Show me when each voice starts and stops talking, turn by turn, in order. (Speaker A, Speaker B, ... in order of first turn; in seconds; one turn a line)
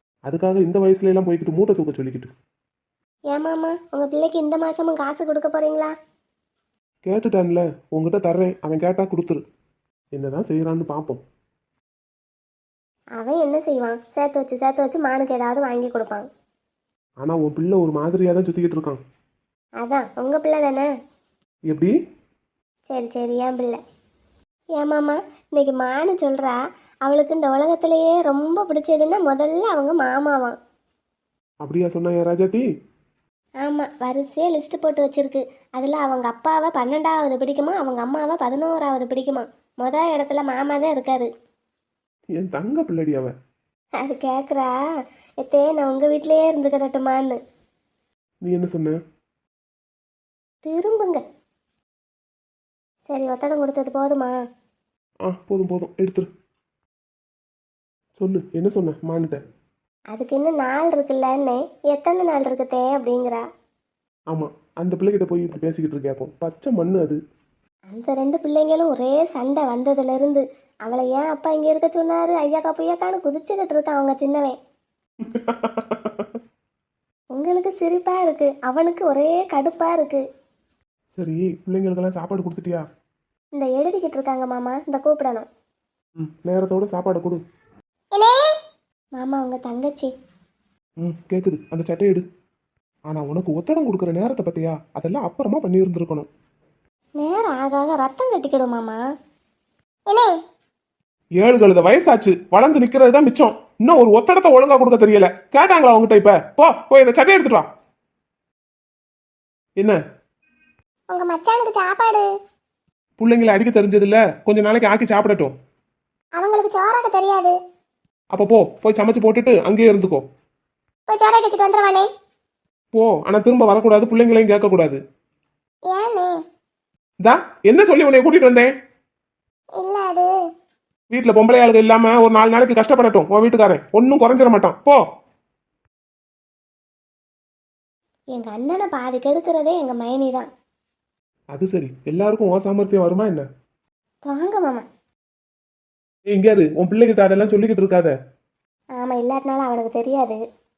Speaker A: 0.3-2.3
Speaker B: 3.3-6.0
Speaker A: 7.1-9.4
Speaker A: 10.2-11.2
Speaker B: 13.2-16.3
Speaker A: 17.2-19.0
Speaker B: 19.8-20.9
Speaker B: 22.9-23.8
Speaker B: 24.8-30.6
Speaker A: 31.6-32.6
Speaker B: 33.6-41.3
Speaker A: 42.4-43.3
Speaker B: 44.0-44.8
Speaker B: 45.4-47.4
Speaker A: 48.4-49.0
Speaker B: 50.7-51.2
Speaker B: 53.1-54.4
Speaker A: 55.3-56.3
Speaker A: 58.2-59.4
Speaker B: 60.1-63.4
Speaker A: 64.3-67.2
Speaker B: 67.9-74.6
Speaker A: 75.2-76.3
Speaker B: 77.3-80.2
Speaker A: 81.2-82.8
Speaker B: 83.5-85.5
Speaker A: 86.2-87.4
Speaker C: 88.2-88.4
Speaker B: 89.2-90.1
Speaker A: 91.0-92.2
Speaker A: 93.1-96.3
Speaker B: 97.2-99.0
Speaker C: 100.1-100.3
Speaker A: 101.4-107.7
Speaker C: 111.1-112.3
Speaker A: 113.2-115.5
Speaker C: 116.4-117.5
Speaker A: 118.3-120.2
Speaker C: 121.1-122.1
Speaker A: 122.9-125.0
Speaker C: 125.9-126.3
Speaker A: 127.2-128.7
Speaker C: 129.8-130.3
Speaker A: 131.1-135.0
Speaker B: 138.3-140.5
Speaker A: 141.5-143.5
Speaker B: 144.3-144.8
Speaker A: 146.3-148.1
Speaker B: 149.0-150.4